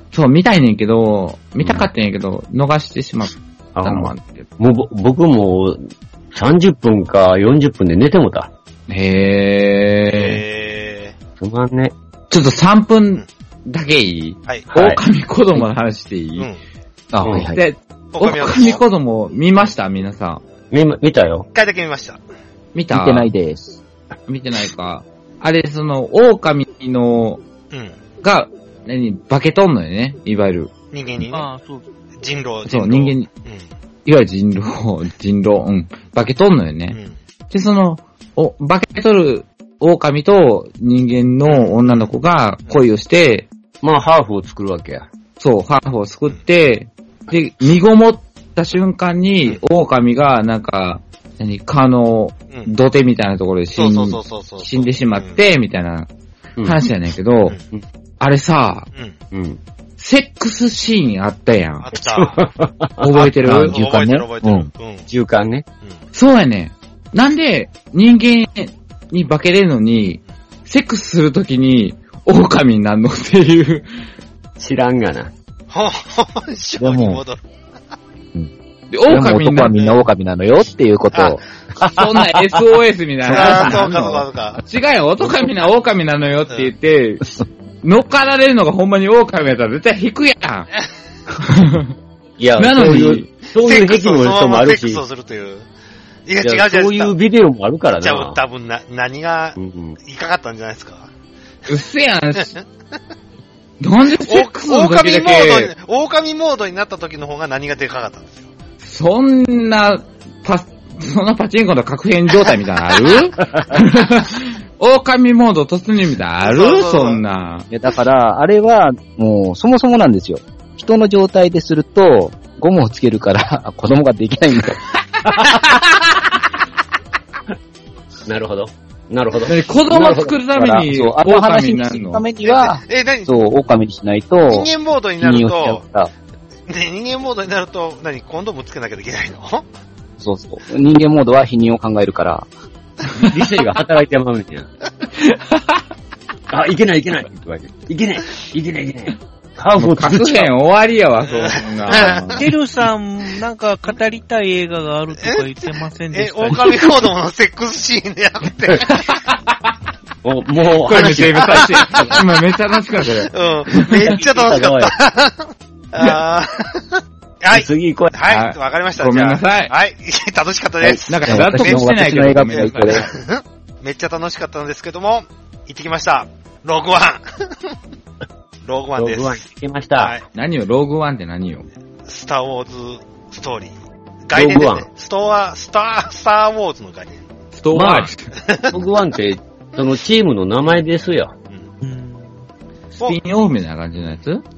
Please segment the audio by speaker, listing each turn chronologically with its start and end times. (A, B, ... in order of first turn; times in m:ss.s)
0:00.1-0:04.5 A
0:01.6-0:01.9 B
0:03.8-0:05.8 B
0:06.3-0:08.5 B
0:08.9-0:10.4 A
0:10.1-0:11.2 C
0:11.4-0:11.9 B
0:12.3-0:16.5 A
0:14.7-0:15.0 B
0:17.1-0:17.6 D
0:17.2-0:17.5 B
0:17.5-0:20.4 A
0:18.1-0:18.8 C
0:20.7-0:21.5 B
0:21.5-0:22.2 C
0:22.7-0:23.3 A
0:22.9-0:23.8 D
0:24.3-0:27.4 A
0:27.7-0:28.0 C
0:28.2-0:30.7 A
0:30.9-0:31.5 C
0:31.3-0:31.9 E
0:32.2-0:33.7 C
0:32.7-0:33.3 A
0:34.1-0:37.0 A
0:36.9-0:37.2 C
0:37.5-0:43.5 A
0:41.5-0:42.1 C
0:43.8-0:45.1 B
0:45.4-0:56.1 A
0:53.8-0:55.4 C
0:56.6-0:57.6 A
0:58.2-0:58.9 A
0:59.3-0:59.6 B
1:00.0-1:01.9 A
1:01.8-1:02.4 C
1:02.0-1:03.6 B
1:03.0-1:03.8 A
1:03.2-1:05.1 C
1:03.5-1:04.7 D
1:05.1-1:05.6 B
1:06.1-1:13.9 A
1:14.6-1:15.3 B
1:15.7-1:17.4 C
1:16.8-1:17.2 D
1:18.9-1:19.8 A
1:19.1-1:21.4 D
1:21.1-1:21.4 C
1:21.8-1:27.2 A
1:23.2-1:24.6 C
1:23.3-1:23.7 B
1:27.8-1:30.7 A
1:31.4-1:31.9 A
1:32.4-1:35.0 B
1:32.6-1:33.3 A
1:33.5-1:35.7 C
1:36.3-1:37.2 C
1:36.4-1:38.4 B
1:38.0-1:41.1 C
1:39.6-1:40.0 B
1:41.7-1:42.5 A
1:42.4-1:42.6 C
1:43.8-1:45.7 A
1:44.2-1:48.5 C
1:48.8-1:57.7 A
1:56.4-1:57.2 C
1:57.7-2:04.8 D
2:05.3-2:05.6 B
2:08.3-2:10.4 B
2:09.5-2:12.2 A
2:10.5-2:16.1 D
2:12.4-2:13.4 C
2:14.5-2:15.8 C
2:16.7-2:19.7 C
2:20.2-2:22.5 D
2:23.3-2:24.7 B
2:25.2-2:25.8 A
2:26.5-2:30.5 B
2:29.8-2:32.5 A
2:31.4-2:32.3 C
2:32.4-2:36.8 E
2:36.1-2:39.2 C
2:38.9-2:39.7 A
2:40.2-2:42.2 B
2:40.8-2:44.1 A
2:40.9-2:42.2 C
2:43.3-2:57.2 C
2:44.0-2:44.9 B
2:47.5-2:48.1 B
2:48.2-2:49.7 A
2:50.9-2:53.1 D
2:51.1-2:53.1 A
2:58.6-2:59.4 C
2:59.0-3:00.1 B
3:00.0-3:00.2 C
3:00.3-3:01.7 A
3:02.1-3:03.8 C
3:04.3-3:07.3 C
3:04.3-3:04.9 B
3:07.5-3:08.3 A
3:07.7-3:08.1 B
3:08.4-3:08.8 C
3:08.7-3:11.3 B
3:11.8-3:12.4 E
3:13.0-3:13.2 C
3:13.0-3:14.4 A